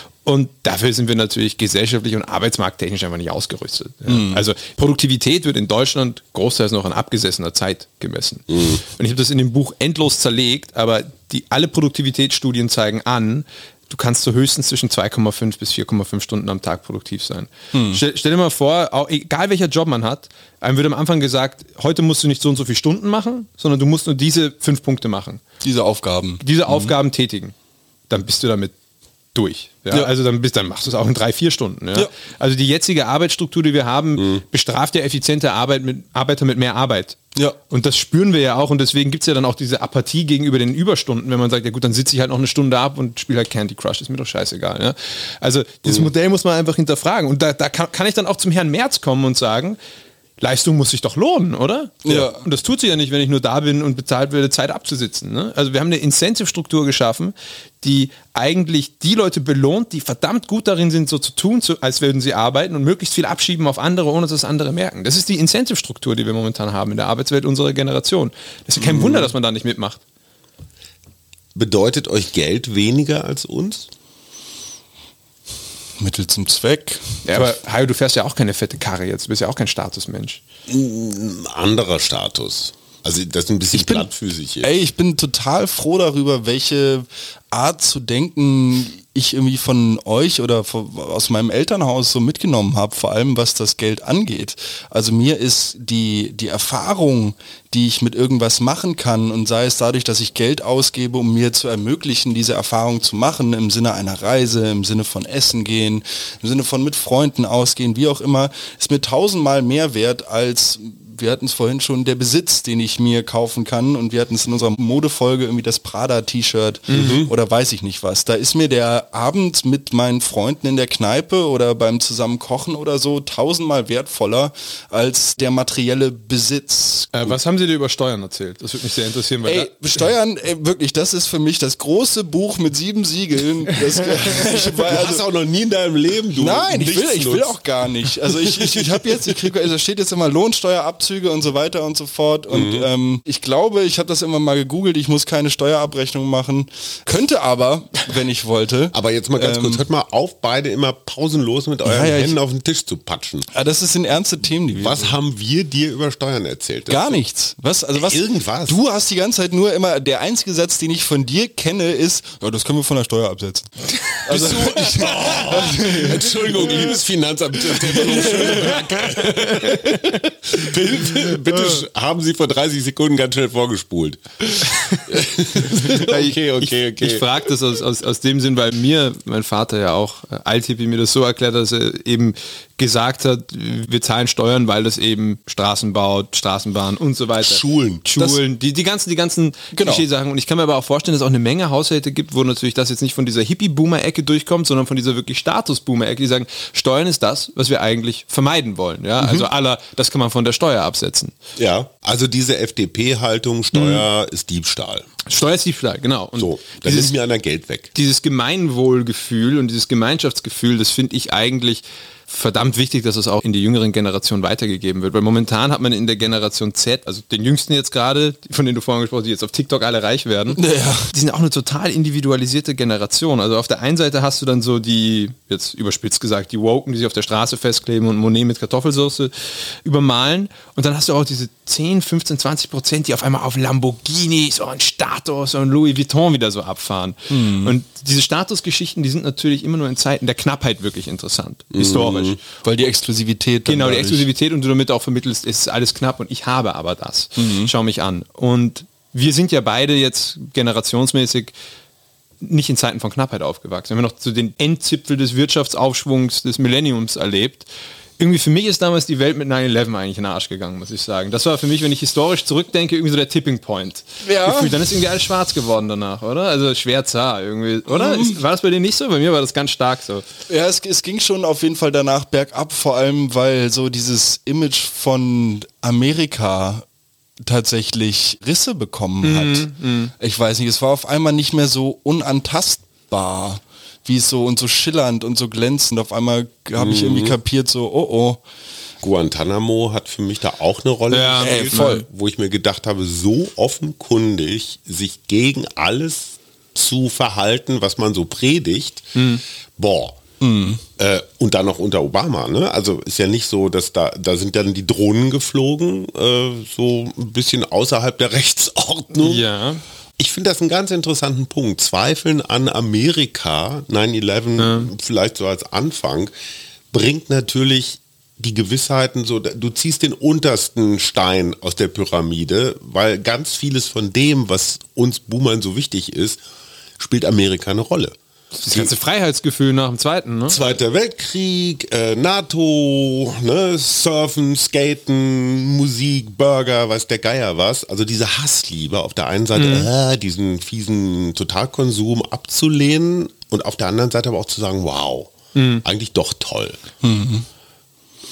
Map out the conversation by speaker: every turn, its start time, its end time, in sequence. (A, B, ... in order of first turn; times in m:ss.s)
0:00.2-0:25.4 A
0:04.0-0:04.4 B
0:08.5-0:08.8 C
0:17.7-0:18.0 B
0:25.6-0:26.9 B
0:26.4-0:27.5 A
0:28.1-0:28.7 A
0:29.3-0:37.2 A
0:34.2-0:34.4 C
0:37.7-0:49.8 A
0:50.4-1:10.0 A
0:52.0-0:52.4 B
1:08.8-1:09.3 C
1:11.5-1:13.9 C
1:16.0-1:17.4 B
1:17.2-1:20.4 A
1:20.7-1:24.7 C
1:23.7-1:24.1 B
1:24.6-2:07.2 B
1:56.9-1:57.2 A
1:56.9-1:57.3 C
2:07.1-2:09.7 A
2:09.4-2:15.2 B
2:14.8-2:17.6 C
2:16.4-2:29.8 B
2:18.3-2:18.8 C
2:22.5-2:22.9 C
2:28.9-2:33.5 C
2:31.8-2:32.4 B
2:33.5-2:35.2 B
2:34.7-2:37.2 C
2:36.9-2:47.0 B
2:38.0-2:38.8 C
2:44.3-2:45.6 A
2:44.3-2:57.2 C
2:47.8-2:48.8 B
2:48.1-2:50.0 A
2:55.8-3:21.4 A
3:07.4-3:08.0 C
3:09.7-3:10.0 B
3:19.2-3:19.5 B
3:21.6-3:25.1 C
3:23.7-3:24.0 A
3:25.3-3:27.1 A
3:26.3-3:27.9 C
3:27.9-4:02.4 A
3:40.5-3:41.1 B
3:57.3-3:57.7 B
4:01.7-4:02.4 C
4:02.6-4:04.3 B
4:03.6-4:11.5 A
4:07.4-4:07.7 B
4:12.4-4:17.7 A
4:18.2-4:30.2 A
4:24.2-4:25.0 B
4:27.9-4:28.4 B
4:30.5-4:36.8 B
4:37.4-4:48.4 B
4:39.2-4:40.1 A
4:46.8-4:47.4 C
4:49.0-4:59.1 C
4:51.1-4:52.0 A
4:51.4-4:52.0 B
4:59.2-4:59.4 A
4:59.8-5:00.2 C
5:00.4-5:00.8 B
5:01.0-5:09.4 C
5:09.2-5:09.8 A
5:10.2-5:16.3 C
5:14.6-5:14.9 A
5:16.9-5:26.4 C
5:27.0-5:28.2 C
5:28.6-5:30.6 A
5:28.7-5:28.9 C
5:30.5-5:46.8 C
5:39.5-5:39.9 A
5:45.5-5:45.8 A
5:47.0-5:47.4 B